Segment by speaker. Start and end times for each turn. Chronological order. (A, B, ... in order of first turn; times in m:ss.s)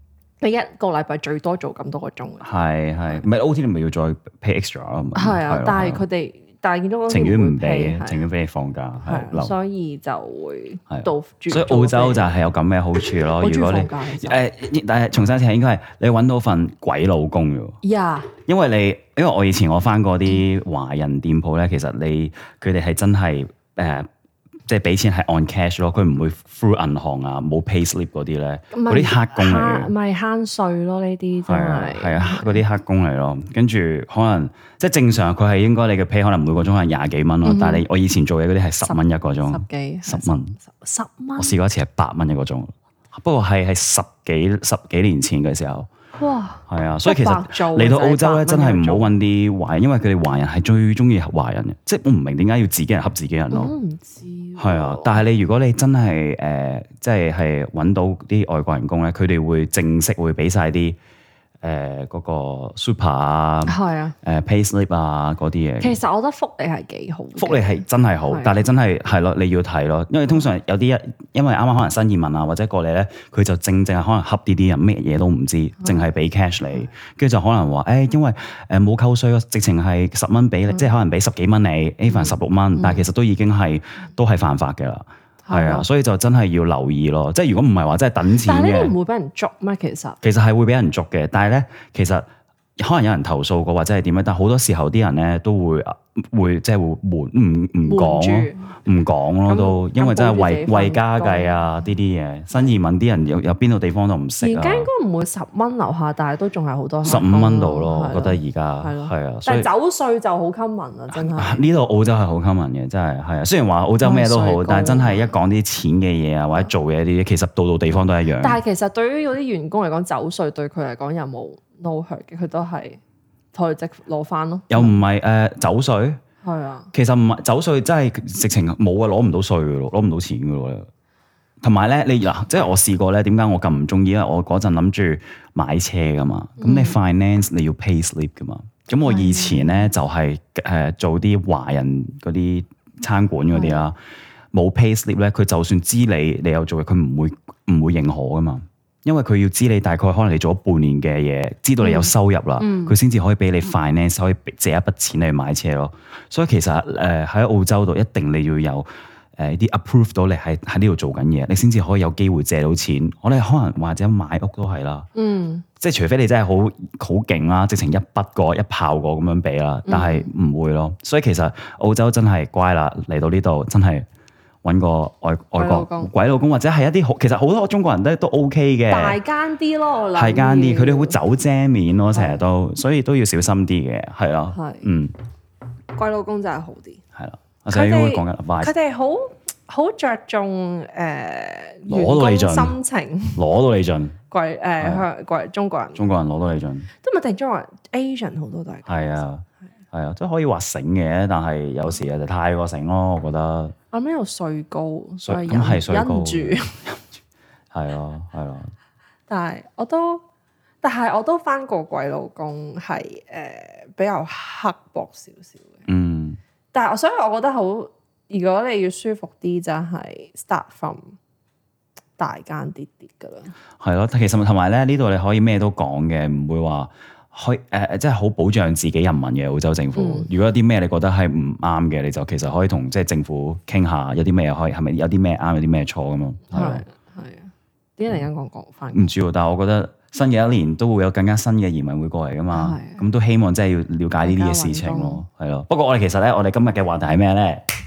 0:00.4-0:02.5 A
0:02.4-0:06.0 B
0:05.1-0:08.2 A
0:07.1-0:09.5 B
0:09.0-0:12.3 A
0:10.9-0:17.8 B
0:13.4-0:14.4 A
0:17.8-0:18.3 A
0:18.4-0:24.1 B
0:24.6-0:29.9 B
0:28.7-0:32.6 A
0:31.4-0:40.6 B
0:37.4-0:37.8 A
0:38.8-0:41.5 A
0:41.4-0:45.9 B
0:46.2-0:49.1 A
0:46.7-0:53.7 B
0:53.5-0:55.2 A
0:54.6-1:01.0 B
1:01.6-1:06.0 B
1:03.6-1:04.2 A
1:05.8-1:08.6 A
1:07.4-1:28.9 B
1:22.1-1:23.0 A
1:25.4-1:25.9 A
1:28.4-1:30.2 A
1:30.2-1:32.2 B
1:32.8-1:44.9 B
1:37.8-1:38.8 A
1:39.5-1:41.6 A
1:44.4-1:51.6 A
1:47.0-1:49.7 B
1:51.1-1:58.6 B
1:54.0-1:55.2 A
1:58.4-2:03.0 A
2:03.5-2:05.0 A
2:04.7-2:06.2 B
2:06.4-2:06.9 A
2:06.9-2:10.9 B
2:11.6-2:24.0 B
2:16.6-2:17.0 A
2:19.0-2:19.9 A
2:23.5-2:23.8 A
2:24.5-2:45.1 B
2:31.8-2:32.9 A
2:45.1-2:45.6 A
2:45.8-2:54.1 B
2:49.9-2:50.3 A
2:54.6-2:59.2 B
2:55.6-2:56.1 A
2:58.9-3:01.2 A
3:00.1-3:05.1 B
3:02.1-3:02.4 A
3:04.5-3:04.9 A
3:05.9-3:07.0 A
3:07.1-3:08.7 B
3:07.7-3:13.4 A
3:11.8-3:12.8 B
3:13.3-3:14.2 B
3:14.3-3:16.0 A
3:14.8-3:15.0 B
3:16.0-3:16.9 B
3:17.0-3:19.2 A
3:18.9-3:23.7 B
3:23.9-3:26.8 A
3:25.2-3:27.2 B
3:27.7-3:28.7 B
3:29.3-3:30.2 A
3:30.8-3:35.8 A
3:35.9-3:36.4 B
3:36.7-3:41.2 A
3:42.2-3:43.5 A
3:43.8-3:56.8 B
3:50.0-3:50.3 A
3:56.5-3:59.1 A
3:58.9-4:07.7 B
4:02.5-4:03.0 A
4:04.2-4:05.2 A